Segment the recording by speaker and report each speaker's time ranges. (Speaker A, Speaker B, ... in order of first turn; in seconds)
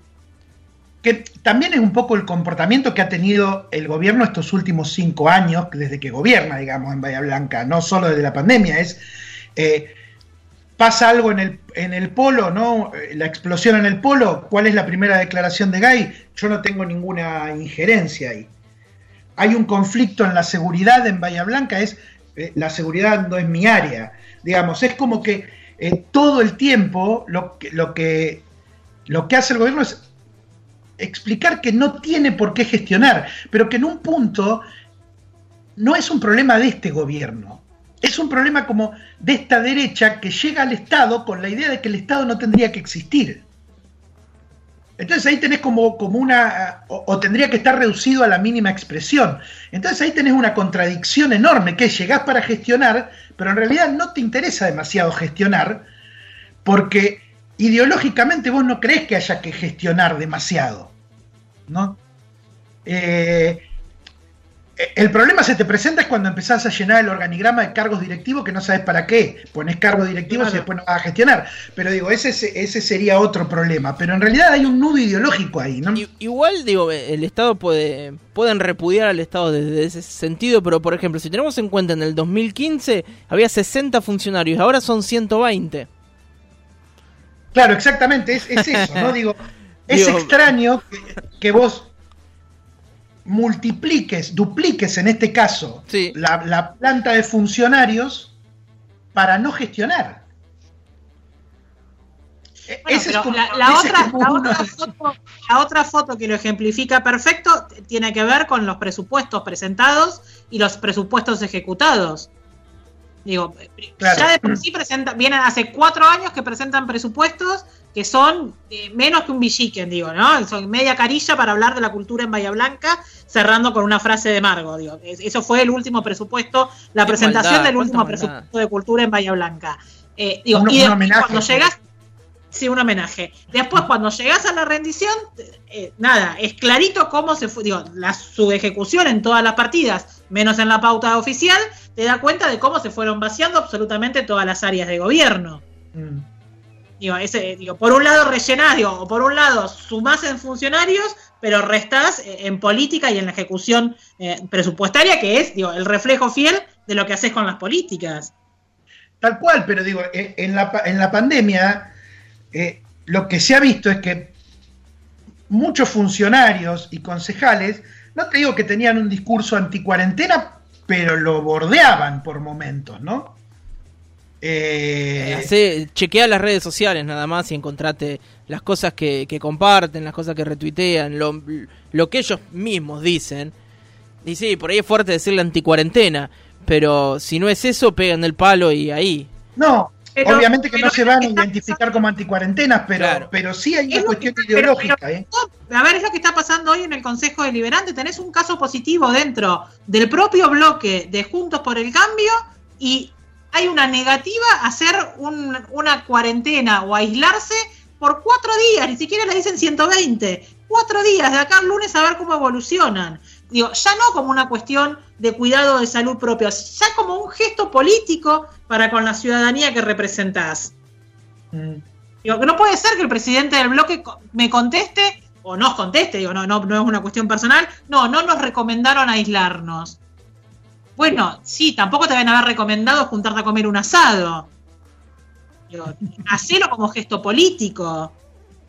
Speaker A: 1.0-9.0, 9.6-10.0, 10.8-18.5, 19.4-28.4, 29.1-30.1, 31.0-34.7, 35.8-43.5, 45.0-55.9, 56.6-60.9, 61.7-62.0, 62.9-63.6, 64.8-76.0, 87.5-91.9, 93.2-98.3, 99.1-100.2, 102.7-104.7, 114.0-114.5, 130.5-131.7, 145.9-146.3, 159.2-161.9, 162.5-164.3, 165.5-173.4, 174.4-175.5, 189.6-195.3, 221.5-221.8
Speaker B: 70.3-70.7, 76.0-85.9, 88.7-89.1, 89.9-90.4, 95.9-96.2, 127.1-128.5, 175.2-183.5, 184.2-189.3, 193.0-193.3
Speaker C: 102.9-112.3, 113.2-131.8, 132.5-145.6, 147.0-158.3, 190.2-191.8, 193.9-220.7, 222.2-230.0, 231.0-234.5, 235.7-238.1